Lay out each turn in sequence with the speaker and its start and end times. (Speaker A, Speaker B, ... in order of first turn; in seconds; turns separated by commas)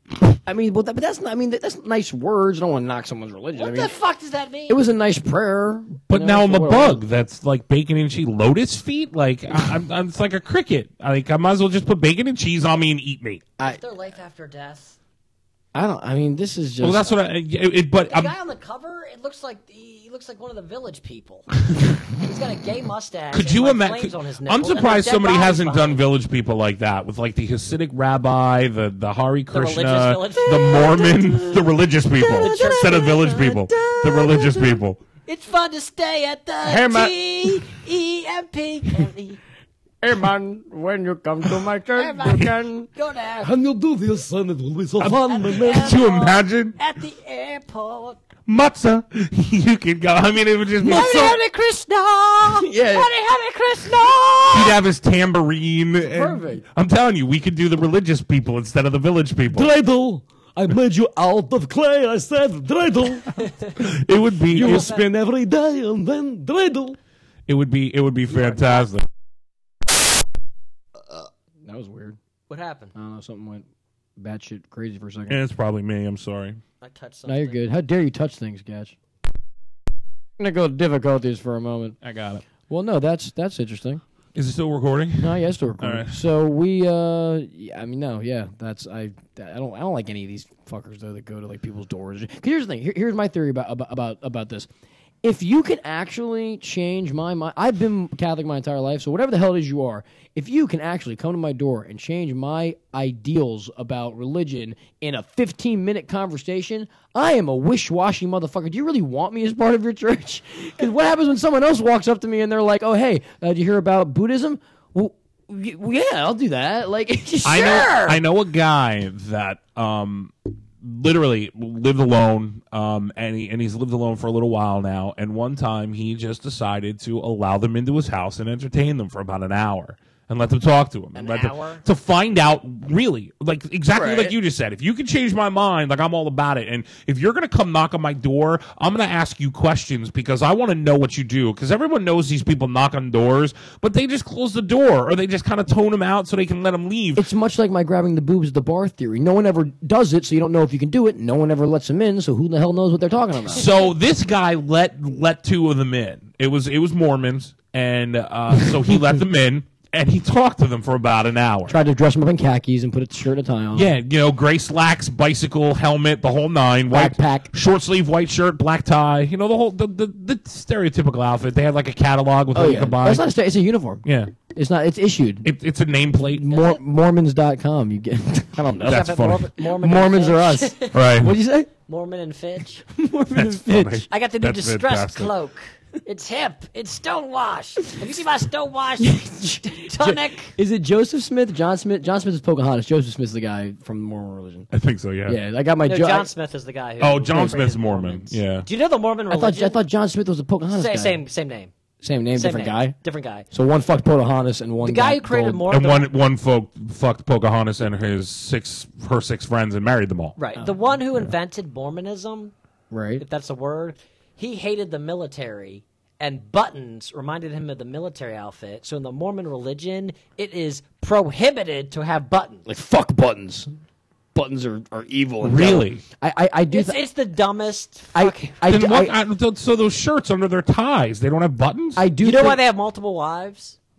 Speaker A: 0.5-3.9, Speaker B: 3.5-4.9, Speaker A: 4.7-7.0, Speaker C: 6.1-13.4, Speaker B: 13.6-14.9, Speaker A: 15.7-17.2, Speaker C: 16.8-18.4, Speaker B: 18.1-26.1, Speaker C: 23.3-35.0, Speaker B: 29.5-31.5, Speaker A: 30.6-31.6, Speaker A: 32.2-34.8, Speaker B: 32.4-33.1, Speaker B: 35.3-39.4, Speaker A: 36.6-37.6, Speaker A: 40.0-42.9, Speaker B: 41.9-43.5, Speaker A: 43.4-46.0, Speaker C: 45.0-46.8, Speaker B: 45.3-48.2, Speaker C: 48.5-51.4, Speaker A: 50.8-51.4, Speaker B: 50.9-54.8, Speaker A: 52.5-53.1, Speaker A: 54.1-54.7, Speaker C: 54.5-59.7, Speaker A: 56.1-56.6, Speaker A: 59.5-64.0, Speaker C: 63.8-64.9, Speaker A: 64.5-67.0, Speaker B: 64.6-65.0, Speaker C: 67.5-69.0, Speaker A: 71.1-72.2, Speaker B: 72.5-72.9, Speaker A: 72.9-73.7, Speaker A: 74.2-75.4, Speaker C: 75.3-76.6, Speaker B: 76.8-77.7, Speaker A: 77.3-78.9, Speaker A: 80.4-82.0, Speaker C: 82.0-82.4, Speaker A: 82.7-84.0, Speaker C: 84.3-86.2, Speaker A: 85.2-94.7, Speaker A: 95.2-118.0, Speaker B: 117.4-118.2, Speaker C: 117.4-147.2, Speaker B: 131.2-131.8, Speaker A: 133.9-134.3, Speaker A: 147.2-153.7, Speaker C: 153.5-161.8, Speaker A: 161.7-163.9, Speaker C: 163.7-173.2, Speaker A: 166.9-167.5, Speaker A: 172.5-175.5, Speaker C: 174.1-174.3, Speaker C: 175.4-176.4, Speaker A: 176.3-181.7, Speaker B: 176.5-176.8, Speaker C: 178.8-179.5, Speaker B: 178.8-181.0, Speaker C: 180.9-181.3, Speaker B: 181.9-182.8, Speaker A: 182.9-184.1, Speaker C: 183.3-185.3, Speaker B: 184.1-190.6, Speaker A: 189.0-194.7, Speaker C: 194.7-195.4, Speaker A: 195.3-196.3, Speaker B: 195.8-199.8, Speaker C: 197.0-198.7, Speaker A: 197.3-197.8, Speaker A: 199.3-201.2, Speaker B: 200.7-201.7, Speaker A: 202.0-202.9, Speaker B: 202.3-203.4, Speaker A: 203.5-205.7, Speaker B: 204.8-206.1, Speaker C: 205.7-210.4, Speaker B: 210.4-212.5, Speaker A: 212.9-213.2, Speaker B: 213.2-222.7, Speaker A: 222.7-223.7, Speaker A: 224.3-227.0, Speaker C: 225.4-226.0, Speaker B: 226.7-228.6, Speaker A: 228.2-229.2, Speaker C: 228.7-232.0, Speaker A: 231.9-232.6, Speaker B: 232.2-233.8